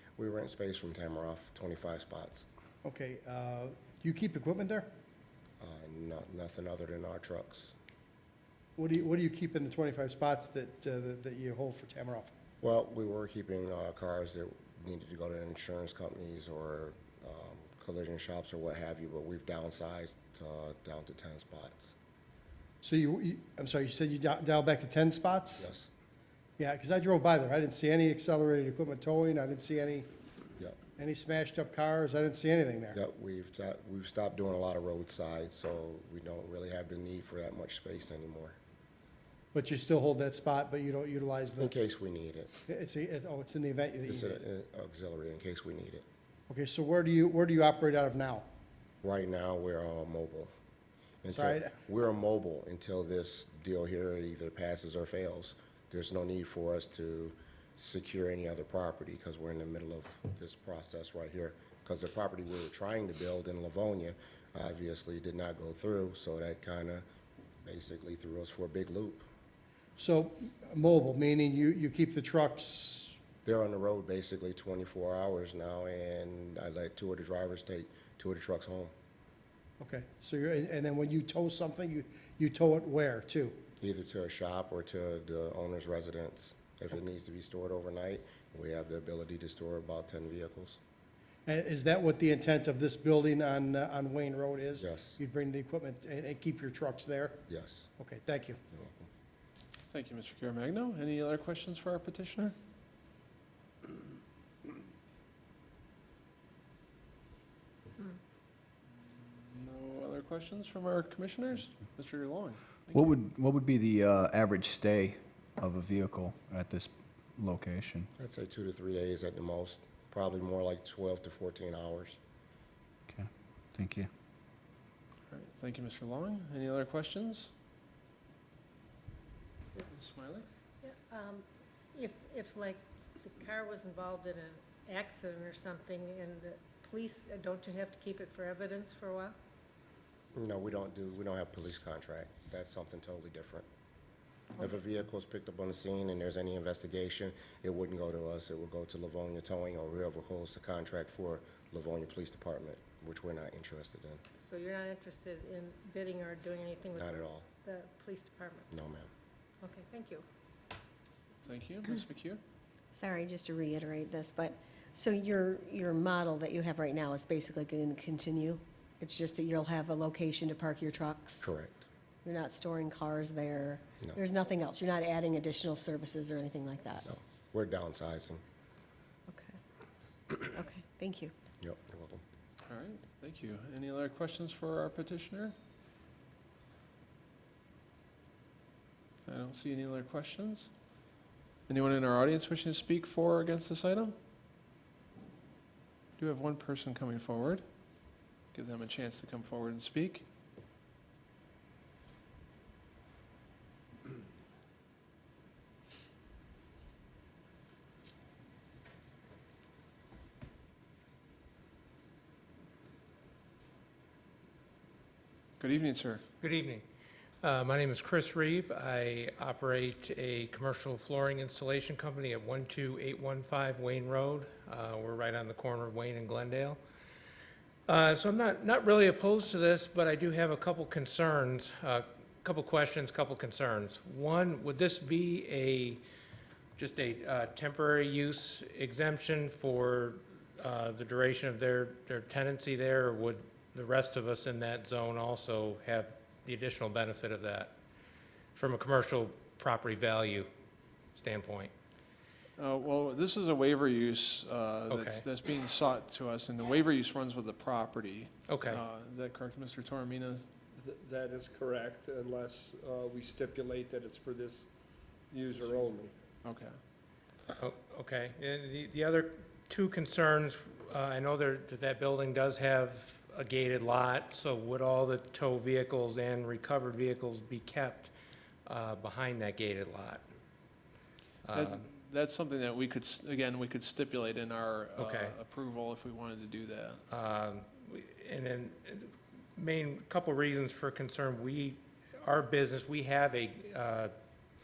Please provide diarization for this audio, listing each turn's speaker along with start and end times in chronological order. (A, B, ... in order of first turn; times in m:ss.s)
0:00.2-0:02.5 A
0:02.8-0:04.9 B
0:05.6-0:07.8 A
0:08.8-0:12.3 B
0:12.6-0:22.0 A
0:22.8-0:25.7 B
0:25.6-0:25.9 A
0:26.6-0:30.1 B
0:31.0-0:33.0 B
0:32.9-0:38.6 A
0:39.5-0:41.7 B
0:41.6-0:42.5 A
0:42.7-0:44.4 B
0:44.1-0:46.1 A
0:46.5-0:48.5 B
0:49.0-0:50.5 A
0:51.2-1:07.0 A
0:51.3-0:51.7 B
1:07.6-1:09.3 A
1:10.0-1:13.2 B
1:13.4-1:18.9 A
1:19.8-1:23.6 B
1:23.8-1:30.8 A
1:31.5-1:37.4 B
1:34.8-1:35.2 A
1:37.5-1:37.9 A
1:38.0-1:38.6 B
1:38.7-1:39.1 A
1:39.9-1:42.6 C
1:48.9-1:53.2 C
1:52.9-1:58.1 D
1:58.2-2:02.2 A
2:03.1-2:04.1 D
2:05.3-2:07.5 C
2:09.8-2:10.5 C
2:10.8-2:19.4 E
2:20.3-2:23.7 A
2:24.6-2:34.2 A
2:34.4-2:38.8 E
2:37.0-2:37.5 A
2:38.7-2:39.1 A
2:39.6-2:40.2 E
2:41.4-2:42.4 C
2:42.9-2:51.5 F
2:51.4-2:51.9 A
2:52.2-2:57.0 F
2:57.1-2:58.4 A
2:59.3-2:59.6 F
3:00.3-3:01.3 F
3:01.6-3:02.2 A
3:02.7-3:05.6 C
3:09.3-3:10.7 C
3:11.7-3:14.2 C
3:16.2-3:17.6 C
3:18.5-3:20.2 C
3:35.6-3:36.2 C
3:36.4-3:36.8 G
3:37.4-3:46.8 G
3:47.9-3:56.0 G
3:56.8-4:07.7 G
4:08.6-4:10.5 G
4:11.2-4:11.7 G
4:12.6-4:20.5 C
4:14.9-4:15.2 G
4:18.5-4:18.8 G
4:20.7-4:24.7 H
4:25.3-4:26.2 H
4:26.4-4:26.8 C
4:27.6-4:38.1 G
4:38.7-4:40.2 G
4:41.5-4:41.8 G
4:41.5-4:47.0 C
4:45.0-4:45.3 G
4:47.1-4:54.1 G